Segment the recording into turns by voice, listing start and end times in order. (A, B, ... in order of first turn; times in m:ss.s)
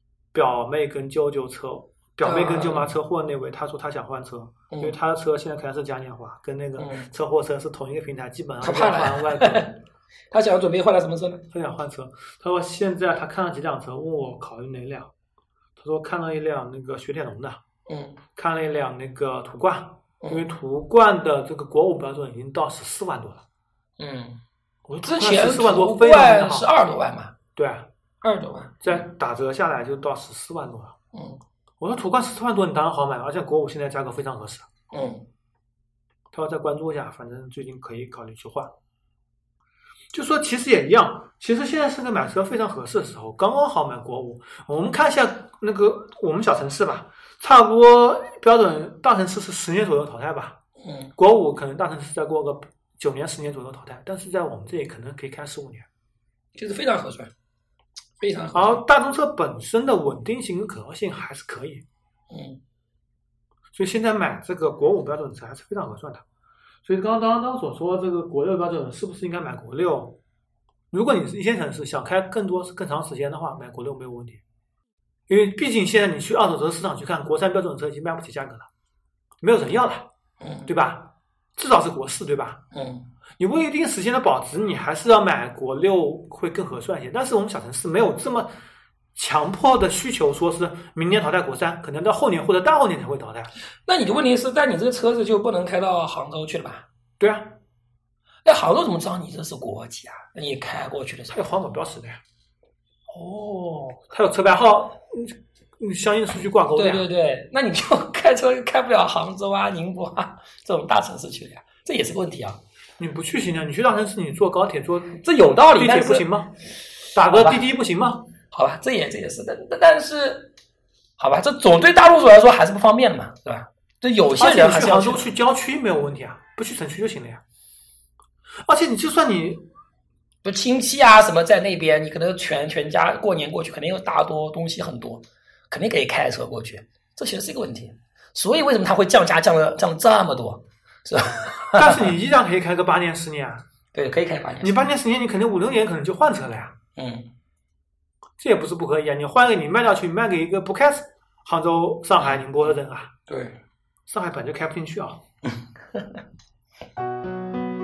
0:00.3-0:09.7 A
0:02.2-0:02.9 B
0:06.8-0:07.1 B
0:08.6-0:09.8 B
0:10.3-0:11.5 B
0:11.5-0:15.1 A
0:15.8-0:17.6 A
0:17.9-0:18.2 B
0:18.4-0:23.4 A
0:24.0-0:24.4 B
0:24.9-0:26.7 A
0:25.0-0:27.4 B
0:27.6-0:27.9 A
0:28.2-0:29.1 B
0:28.8-0:31.0 A
0:31.1-0:31.4 B
0:31.8-0:34.7 A
0:34.9-0:35.3 B
0:36.3-0:38.7 A
0:40.1-0:50.6 A
0:50.8-0:51.1 B
0:51.2-0:55.9 A
0:56.6-0:57.3 B
0:58.2-0:58.8 B
0:58.5-1:01.8 A
1:02.3-1:02.6 B
1:03.7-1:06.2 A
1:06.8-1:10.2 A
1:10.9-1:14.4 A
1:15.3-1:18.7 A
1:19.4-1:20.1 A
1:20.4-1:20.7 B
1:20.7-1:22.6 A
1:22.7-1:23.1 B
1:23.4-1:28.5 A
1:29.2-1:33.5 A
1:33.9-1:36.9 B
1:37.2-1:37.6 A
1:38.4-1:41.4 B
1:41.3-1:42.2 A
1:43.1-1:44.0 B
1:44.1-1:47.0 A
1:46.8-1:52.6 B
1:53.0-1:56.6 A
1:55.2-1:56.3 B
1:57.1-1:58.3 A
1:57.3-1:57.6 B
1:58.5-2:00.5 B
2:01.2-2:05.3 B
2:04.4-2:07.4 A
2:08.6-2:09.7 A
2:10.4-2:22.1 B
2:21.8-2:23.6 A
2:23.9-2:24.9 B
2:24.6-2:26.8 A
2:27.0-2:27.3 B
2:28.4-2:33.1 A
2:32.2-2:32.4 B
2:33.3-2:33.6 B
2:34.1-2:35.2 A
2:35.4-2:36.2 B